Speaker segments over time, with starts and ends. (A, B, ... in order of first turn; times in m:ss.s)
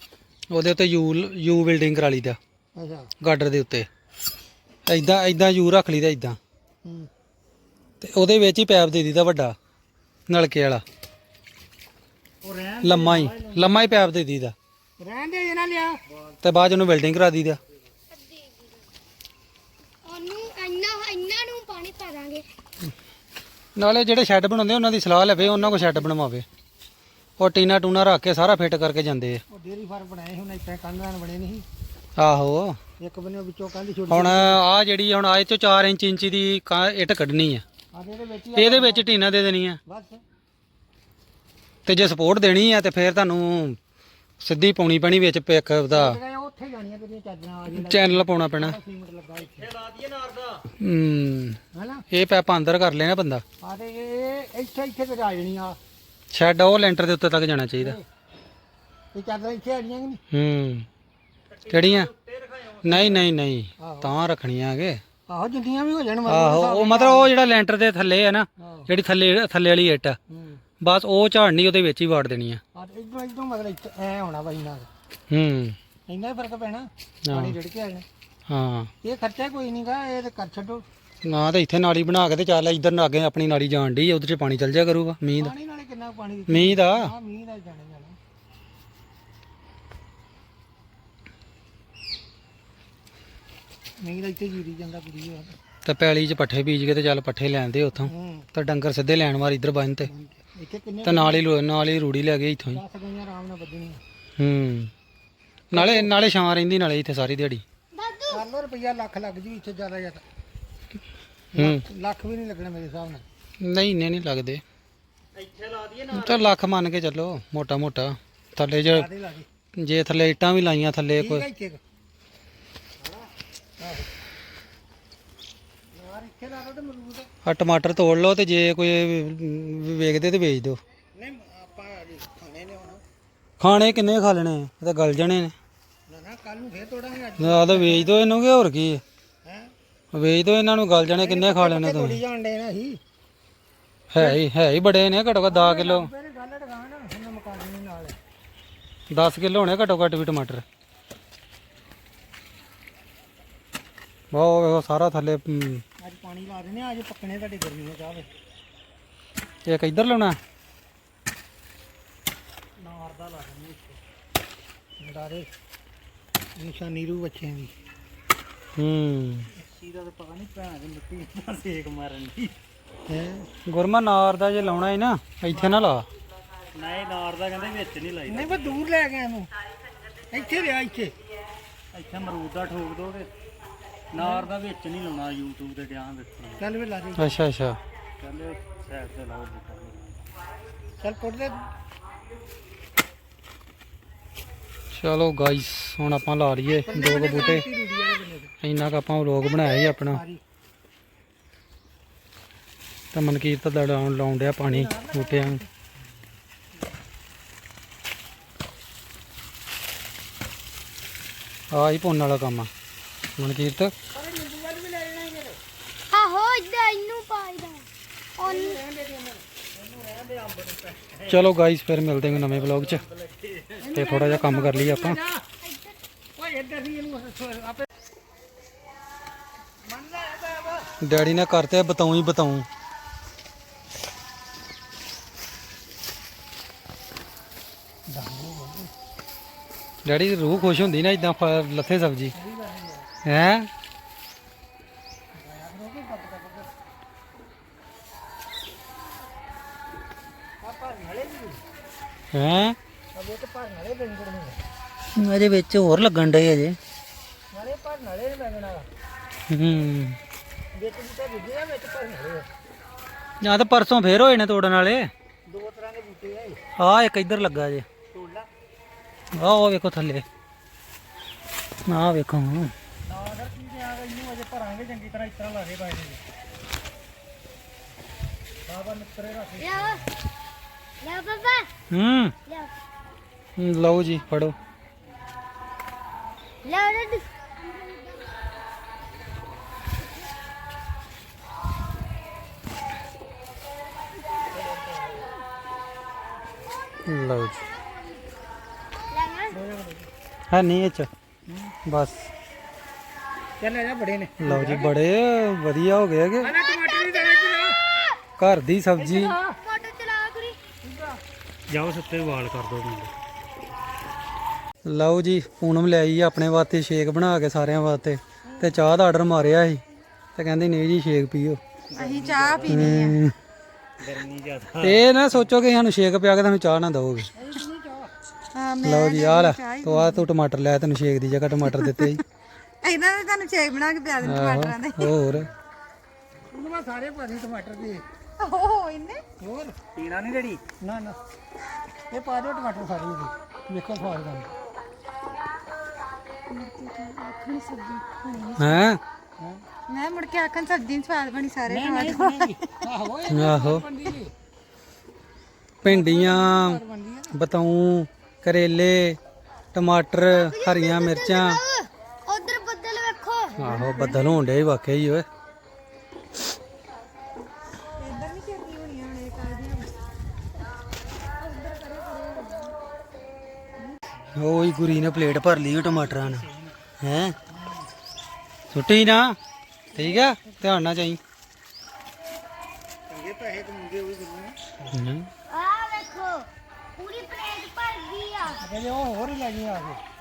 0:00.5-0:02.4 A
0:02.8-0:03.1 B
0:03.2-0:03.9 A
0:04.9-0:06.4 A
0:06.8-0:07.1 B
0:08.0-0:09.6 A
0:10.3-0:10.8 A
0:12.4-0:14.0 C
0:12.8-0:14.5 A
0:15.0-0:16.0 B
0:16.1-0:16.6 C
0:16.4-0:17.6 A
0:18.1-0:18.9 D
0:20.0-0:22.4 D
0:23.8-0:26.5 A
0:25.4-0:26.1 B
0:27.4-0:29.4 A
0:29.5-0:31.7 B
0:32.2-0:32.8 A
0:33.0-0:34.6 B
0:34.1-0:37.6 A
0:37.9-0:39.2 B
0:38.6-0:39.8 A
0:39.9-0:40.2 B
0:41.9-0:43.8 A
0:44.4-0:46.2 A
0:45.9-0:49.7 B
0:47.7-0:48.8 A
0:49.4-0:50.7 C
0:50.8-0:53.4 A
0:51.7-0:52.1 B
0:53.6-0:55.8 B
0:56.3-0:58.0 A
0:57.8-0:58.0 B
0:59.1-1:00.2 B
1:00.3-1:00.9 A
1:01.5-1:03.3 C
1:01.7-1:02.1 A
1:02.8-1:05.0 A
1:03.8-1:04.1 B
1:05.3-1:07.3 B
1:06.3-1:10.2 A
1:08.6-1:08.9 B
1:10.3-1:10.6 B
1:10.8-1:12.6 A
1:12.7-1:14.9 B
1:15.3-1:15.8 A
1:16.1-1:18.1 B
1:17.3-1:17.6 A
1:18.5-1:18.9 A
1:19.0-1:20.9 B
1:21.2-1:25.5 A
1:25.4-1:28.2 B
1:26.5-1:27.1 A
1:34.0-1:35.6 B
1:35.8-1:40.1 A
1:38.0-1:38.5 B
1:40.0-1:41.5 B
1:41.0-1:42.8 A
1:42.7-1:44.0 B
1:44.4-1:44.9 A
1:45.7-1:47.6 A
1:45.7-1:46.1 B
1:47.9-1:48.4 D
1:48.3-1:50.2 B
1:51.5-1:53.2 B
1:51.6-1:51.8 A
1:53.6-1:54.6 A
1:55.4-1:56.6 C
1:56.1-1:59.1 A
1:58.9-1:59.5 B
1:59.8-2:01.5 A
2:01.2-2:01.8 B
2:03.8-2:04.1 B
2:05.9-2:07.3 B
2:07.4-2:10.8 A
2:11.1-2:13.0 B
2:13.6-2:15.5 A
2:16.1-2:18.2 B
2:17.4-2:19.0 A
2:19.4-2:19.7 B
2:20.1-2:22.2 A
2:21.2-2:23.0 B
2:24.1-2:26.1 A
2:24.2-2:24.4 B
2:25.5-2:28.2 B
2:29.1-2:30.6 A
2:34.3-2:35.8 A
2:36.0-2:38.3 B
2:39.7-2:40.4 A
2:42.8-2:44.0 C
2:45.0-2:45.5 B
2:46.6-2:47.7 B
2:48.8-2:49.5 A
2:49.5-2:52.5 C
2:53.1-2:53.5 B
2:53.7-2:56.1 A
2:56.8-2:58.8 C
2:58.3-2:59.5 B
3:00.3-3:01.2 B
3:01.9-3:03.3 C
3:04.1-3:06.7 C
3:04.2-3:04.5 B
3:06.6-3:07.4 B
3:07.2-3:07.8 A
3:08.2-3:10.2 C
3:11.0-3:11.7 B
3:14.9-3:17.7 A
3:16.9-3:18.5 B
3:18.6-3:20.2 A
3:19.8-3:20.4 B
3:23.1-3:25.6 A
3:24.7-3:25.7 B
3:31.7-3:32.7 A
3:33.4-3:33.9 A
3:34.1-3:35.6 B
3:36.1-3:38.8 D
3:38.4-3:39.4 B
3:39.7-3:41.5 C
3:41.3-3:43.0 A
3:42.2-3:43.9 C
3:43.8-3:45.5 B
3:44.0-3:45.2 A
3:45.6-3:46.0 D
3:46.4-3:47.9 B
3:49.8-3:50.9 B
3:51.0-3:52.7 A
3:58.1-3:58.9 B
4:00.0-4:02.3 A
4:02.3-4:03.1 B
4:03.2-4:03.7 A
4:05.3-4:06.7 B
4:10.6-4:11.6 B
4:12.3-4:12.8 A
4:13.1-4:14.6 B
4:15.2-4:16.8 A
4:17.5-4:18.9 B
4:19.5-4:20.2 A
4:20.8-4:22.5 B
4:23.4-4:25.1 A
4:25.5-4:26.6 B
4:26.8-4:27.9 A
4:28.1-4:28.5 B
4:29.3-4:30.2 A
4:31.9-4:32.7 A
4:33.1-4:34.8 B
4:33.3-4:36.2 C
4:38.7-4:39.9 B
4:38.8-4:40.0 C
4:39.6-4:40.0 D
4:41.0-4:41.7 D
4:41.9-4:42.4 A
4:42.5-4:42.7 D
4:43.6-4:44.6 A
4:46.6-4:48.3 D
4:50.0-4:50.3 D
4:54.5-4:55.3 B
4:57.0-4:57.6 A
4:57.4-4:58.2 D
4:59.1-4:59.6 D
4:59.5-5:00.1 B
5:00.5-5:01.1 A
5:01.9-5:02.3 A
5:03.6-5:05.0 B
5:04.4-5:06.5 A
5:06.4-5:07.8 B
5:06.5-5:08.2 D
5:08.4-5:09.4 A
5:09.0-5:09.6 B
5:09.5-5:10.6 D
5:10.8-5:11.2 B
5:11.7-5:13.1 C
5:14.8-5:19.8 A
5:18.4-5:18.8 B
5:20.4-5:21.6 A
5:21.9-5:22.9 C
5:22.0-5:23.2 E
5:22.7-5:23.3 A
5:24.0-5:25.0 C
5:24.8-5:27.3 A
5:27.3-5:28.1 B
5:28.5-5:30.3 E
5:28.8-5:32.2 A
5:31.8-5:32.2 E
5:32.8-5:35.1 E
5:34.2-5:35.5 A
5:36.5-5:38.1 B
5:38.4-5:39.2 E
5:39.4-5:39.8 B
5:40.0-5:40.6 C
5:40.8-5:41.2 B
5:42.1-5:44.5 B
5:46.5-5:48.9 E
5:48.6-5:49.0 A
5:49.9-5:52.8 E
5:51.7-5:54.3 B
5:53.3-5:53.8 A
5:55.8-5:56.8 A
5:55.8-5:57.4 B
5:57.3-5:59.2 A
5:59.7-6:01.6 A
6:00.3-6:03.6 D
6:03.6-6:04.2 B
6:03.6-6:05.3 A
6:03.7-6:04.4 E
6:08.0-6:10.0 E
6:11.4-6:12.7 E
6:14.4-6:16.5 A
6:16.0-6:16.7 C
6:17.0-6:17.4 A
6:18.7-6:19.4 A
6:19.9-6:21.2 A
6:20.0-6:20.6 E
6:23.1-6:24.6 B
6:24.9-6:25.3 A
6:25.5-6:28.6 D
6:28.6-6:30.0 B